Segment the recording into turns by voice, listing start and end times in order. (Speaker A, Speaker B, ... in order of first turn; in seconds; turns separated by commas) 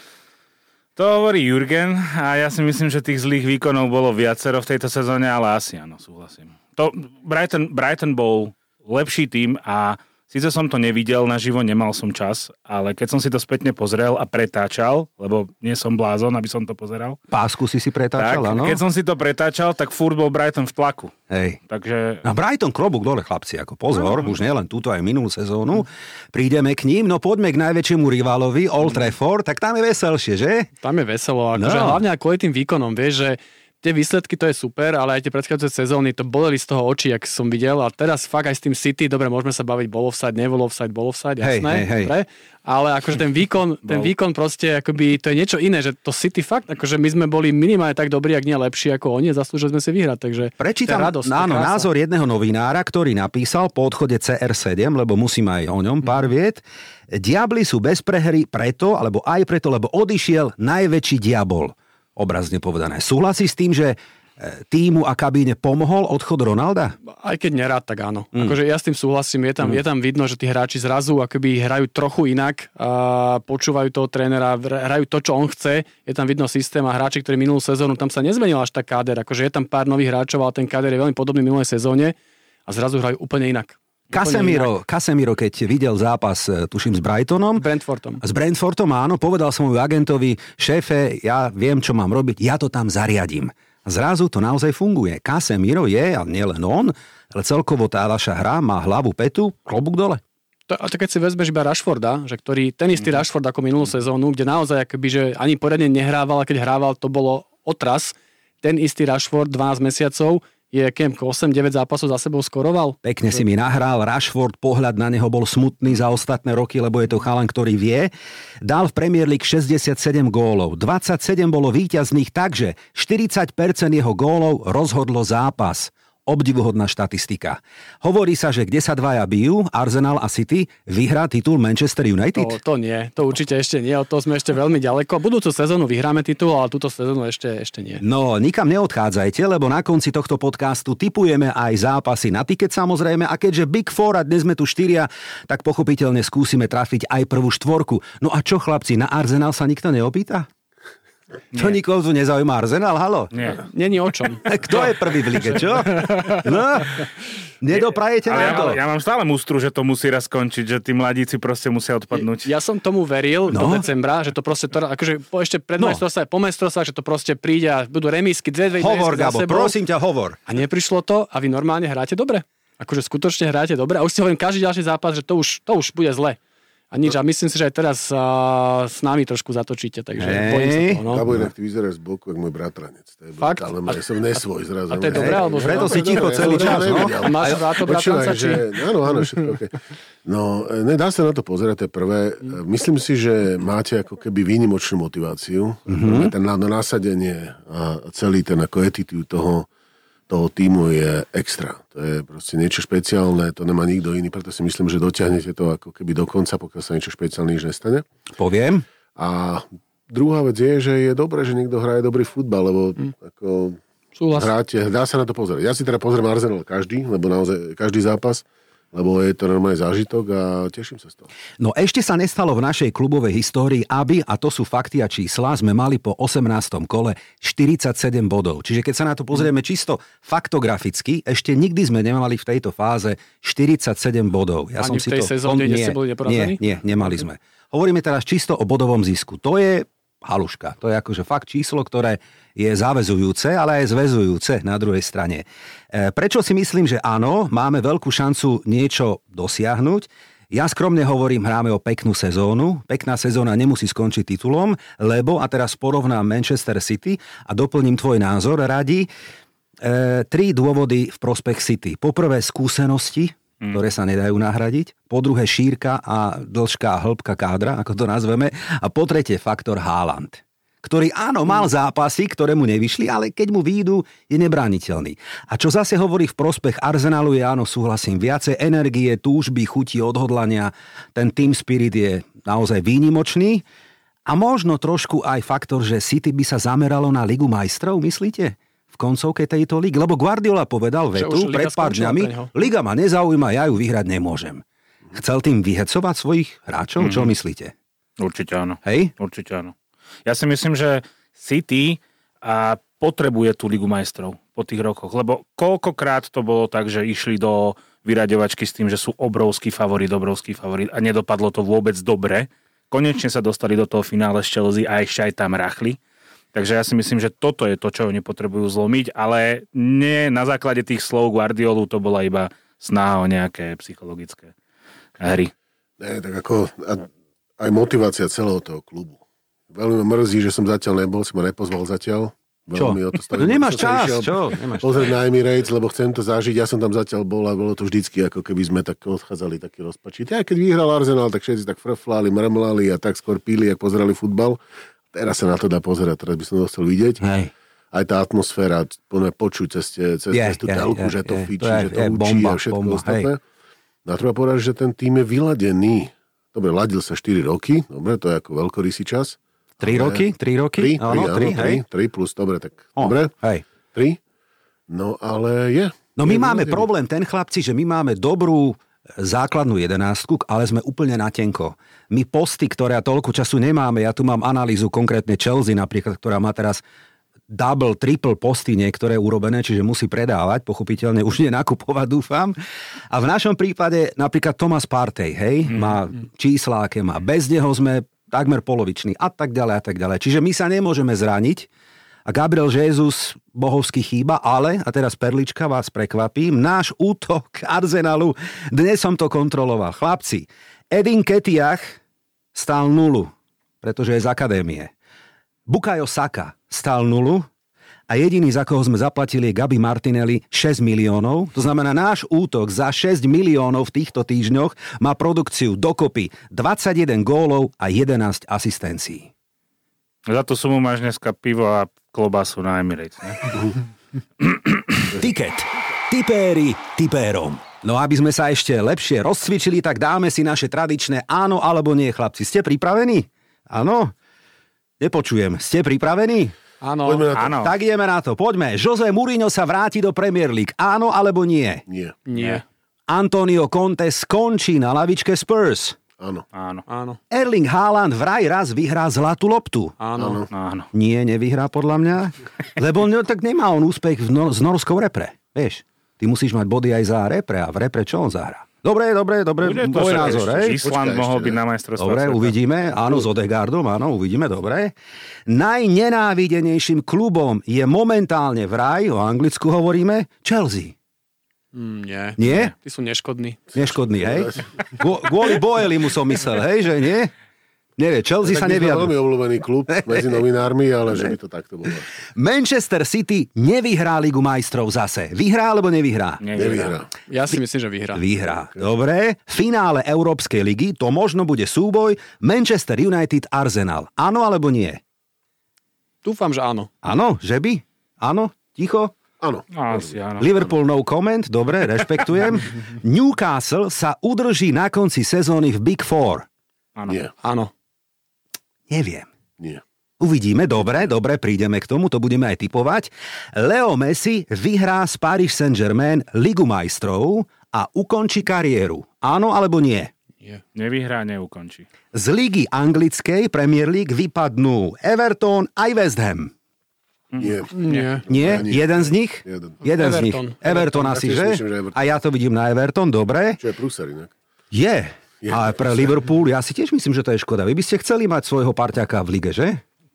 Speaker A: 1.0-17.2, Speaker B: 17.3-18.8, Speaker A: 18.1-21.1, Speaker B: 21.3-21.6, Speaker A: 21.7-22.2, Speaker B: 22.2-30.7, Speaker C: 30.8-51.9, Speaker B: 31.5-32.0, Speaker B: 41.4-42.1, Speaker A: 43.9-44.1, Speaker B: 50.6-67.0, Speaker C: 67.1-82.2, Speaker C: 82.7-84.7, Speaker B: 84.1-87.7, Speaker C: 87.6-88.2, Speaker B: 88.2-100.2, Speaker C: 100.7-113.0, Speaker B: 113.0-118.1, Speaker B: 118.6-132.6, Speaker C: 132.4-138.0, Speaker B: 138.0-150.5, Speaker A: 151.5-151.8, Speaker B: 151.5-153.3, Speaker A: 153.3-153.6, Speaker C: 153.6-154.6, Speaker B: 154.5-157.0, Speaker C: 155.8-156.5, Speaker B: 157.6-158.8, Speaker A: 157.7-162.5, Speaker C: 158.4-158.7, Speaker C: 162.1-169.8, Speaker B: 163.5-163.9, Speaker B: 165.8-166.0, Speaker B: 168.8-170.4, Speaker C: 170.5-176.4, Speaker C: 176.9-181.2, Speaker B: 180.2-181.5, Speaker D: 181.1-199.7, Speaker C: 183.4-184.0, Speaker C: 184.9-188.8, Speaker B: 185.1-187.7, Speaker B: 195.9-196.3, Speaker D: 200.3-208.1, Speaker B: 208.4-208.8, Speaker D: 209.2-221.3, Speaker C: 214.2-214.5, Speaker B: 221.6-259.1, Speaker C: 234.8-236.6, Speaker B: 259.8-283.6, Speaker B: 284.3-297.7, Speaker C: 291.1-292.5, Speaker A: 297.0-297.3, Speaker A: 298.2-299.7, Speaker B: 298.9-299.1, Speaker A: 300.3-316.0, Speaker A: 316.5-324.5, Speaker A: 325.2-325.5, Speaker D: 326.0-327.1, Speaker D: 327.6-329.2, Speaker D: 329.7-344.6, Speaker B: 332.8-335.1, Speaker D: 345.1-347.2, Speaker B: 347.2-347.5, Speaker D: 347.9-353.4, Speaker B: 350.3-353.3, Speaker D: 354.1-363.3, Speaker B: 359.8-361.8, Speaker B: 363.0-363.6, Speaker D: 363.9-364.2, Speaker D: 364.9-366.9, Speaker B: 366.2-376.8, Speaker B: 377.5-382.6, Speaker B: 383.1-391.7, Speaker A: 385.7-386.0, Speaker B: 392.3-402.0, Speaker B: 402.5-403.3, Speaker B: 403.8-404.9, Speaker B: 405.7-407.5, Speaker B: 408.1-419.3, Speaker A: 420.3-423.7, Speaker A: 424.4-425.0, Speaker B: 425.1-434.1, Speaker B: 435.0-436.5, Speaker C: 436.8-437.3, Speaker D: 437.0-437.7, Speaker A: 437.3-437.7, Speaker B: 437.6-441.8, Speaker D: 441.9-442.2, Speaker C: 442.3-442.6, Speaker A: 442.3-442.6, Speaker B: 443.1-446.0, Speaker D: 446.2-446.4, Speaker A: 446.5-446.9, Speaker C: 446.9-447.2, Speaker B: 447.3-450.0, Speaker C: 450.0-450.4, Speaker D: 450.2-450.5, Speaker A: 450.5-450.9, Speaker B: 450.9-460.8, Speaker A: 459.6-462.6, Speaker D: 460.0-461.6, Speaker B: 462.0-464.9, Speaker B: 465.5-470.9, Speaker C: 471.7-473.7, Speaker B: 472.4-472.7, Speaker B: 473.8-477.3, Speaker D: 474.1-474.7, Speaker B: 478.0-479.1, Speaker D: 478.4-482.1, Speaker B: 479.9-480.4, Speaker B: 482.4-486.4, Speaker A: 486.4-487.0, Speaker D: 486.5-487.1, Speaker C: 487.3-488.2, Speaker B: 488.1-495.0, Speaker D: 488.6-488.9, Speaker C: 496.2-496.9, Speaker B: 497.0-499.1, Speaker D: 499.4-500.2, Speaker A: 499.7-500.5, Speaker B: 500.4-506.5, Speaker C: 507.4-507.7, Speaker B: 508.9-509.3, Speaker B: 510.2-520.1, Speaker A: 520.8-521.9, Speaker B: 522.1-526.5, Speaker A: 527.3-528.1, Speaker D: 527.4-529.8, Speaker C: 527.7-528.2, Speaker B: 528.3-533.6, Speaker C: 529.9-530.8, Speaker D: 530.7-532.0, Speaker D: 533.6-534.3, Speaker B: 534.7-539.8, Speaker D: 535.4-536.1